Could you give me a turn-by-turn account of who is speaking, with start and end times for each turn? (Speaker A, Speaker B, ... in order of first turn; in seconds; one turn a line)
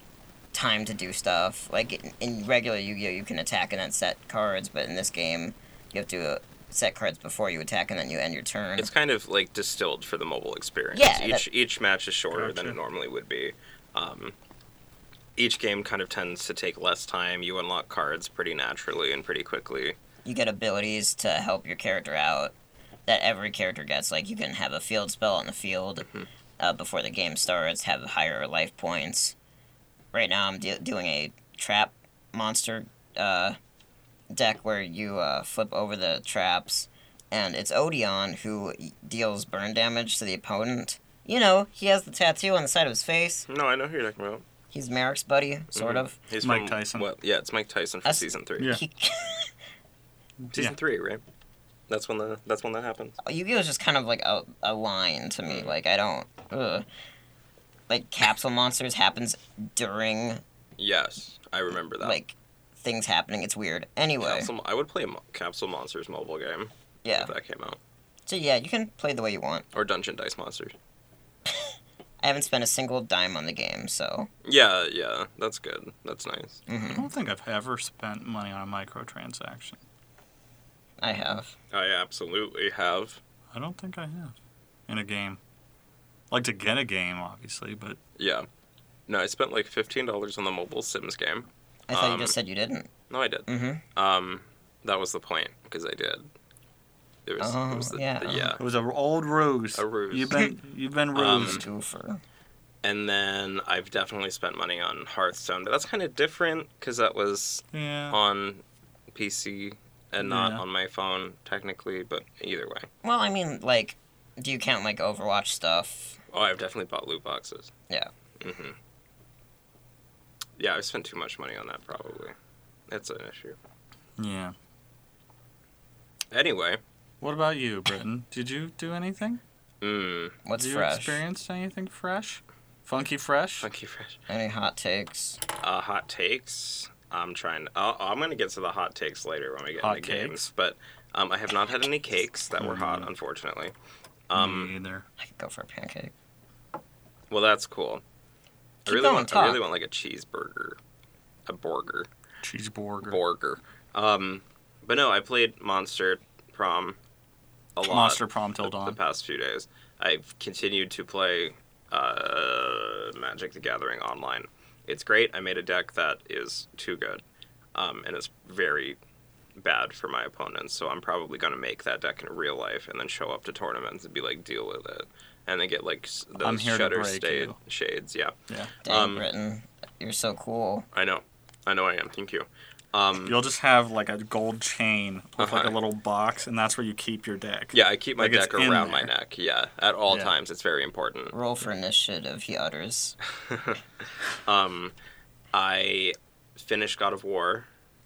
Speaker A: 0.5-8.9
Speaker B: 8.8-14.3
Speaker A: 10.9-11.4
Speaker C: 12.3-12.8
Speaker B: 15.4-20.0
Speaker A: 20.2-22.5
Speaker A: 23.1-26.1
Speaker A: 26.6-29.3
Speaker A: 30.1-33.6
Speaker A: 34.3-43.5
Speaker B: 43.5-44.4
Speaker A: 44.7-46.1
Speaker B: 45.7-48.8
Speaker C: 46.4-47.1
Speaker A: 48.0-49.5
Speaker C: 50.4-50.8
Speaker B: 50.5-51.2
Speaker B: 51.9-53.2
Speaker A: 53.2-56.8
Speaker B: 55.5-55.7
Speaker A: 57.9-60.4
Speaker B: 60.8-62.2
Speaker A: 62.0-64.5
Speaker B: 64.2-67.8
Speaker A: 67.0-67.3
Speaker A: 68.3-69.7
Speaker B: 69.7-70.7
Speaker A: 71.5-74.3
Speaker B: 74.4-76.6
Speaker A: 76.7-77.1
Speaker C: 76.9-79.8
Speaker A: 81.0-81.5
Speaker B: 81.7-83.2
Speaker C: 83.5-84.3
Speaker C: 84.9-85.4
Speaker C: 86.3-88.0
Speaker B: 88.2-88.5
Speaker B: 89.1-92.3
Speaker A: 91.9-92.9
Speaker B: 93.1-96.3
Speaker A: 93.5-93.8
Speaker B: 97.2-98.6
Speaker A: 97.4-98.5
Speaker C: 98.6-101.6
Speaker B: 99.7-100.5
Speaker B: 101.1-101.6
Speaker A: 101.3-102.2
Speaker B: 102.8-108.6
Speaker C: 107.7-108.2
Speaker B: 109.1-112.9
Speaker C: 110.2-110.6
Speaker A: 113.0-116.2
Speaker B: 116.3-117.7
Speaker B: 118.4-118.8
Speaker B: 120.6-122.3
Speaker B: 122.9-123.6
Speaker C: 124.2-124.5
Speaker B: 126.3-126.8
Speaker C: 127.2-129.4
Speaker B: 129.8-130.4
Speaker A: 130.4-131.2
Speaker C: 130.6-133.7
Speaker B: 133.6-134.2
Speaker A: 134.3-135.4
Speaker B: 135.6-143.7
Speaker C: 139.8-140.5
Speaker C: 142.6-143.1
Speaker B: 144.3-144.7
Speaker C: 144.3-145.1
Speaker A: 145.2-146.1
Speaker B: 147.3-148.0
Speaker A: 148.8-149.6
Speaker B: 148.9-150.8
Speaker B: 151.5-152.1
Speaker C: 152.4-153.2
Speaker B: 153.0-157.0
Speaker B: 157.8-167.2
Speaker C: 157.8-159.0
Speaker B: 167.7-169.0
Speaker B: 169.6-178.3
Speaker C: 176.4-177.6
Speaker A: 178.8-180.9
Speaker B: 178.8-179.2
Speaker B: 180.9-183.3
Speaker C: 183.2-189.1
Speaker B: 185.4-185.8
Speaker B: 187.7-191.3
Speaker C: 190.1-190.3
Speaker A: 191.3-193.1
Speaker B: 193.5-193.8
Speaker B: 194.4-194.9
Speaker B: 195.5-197.7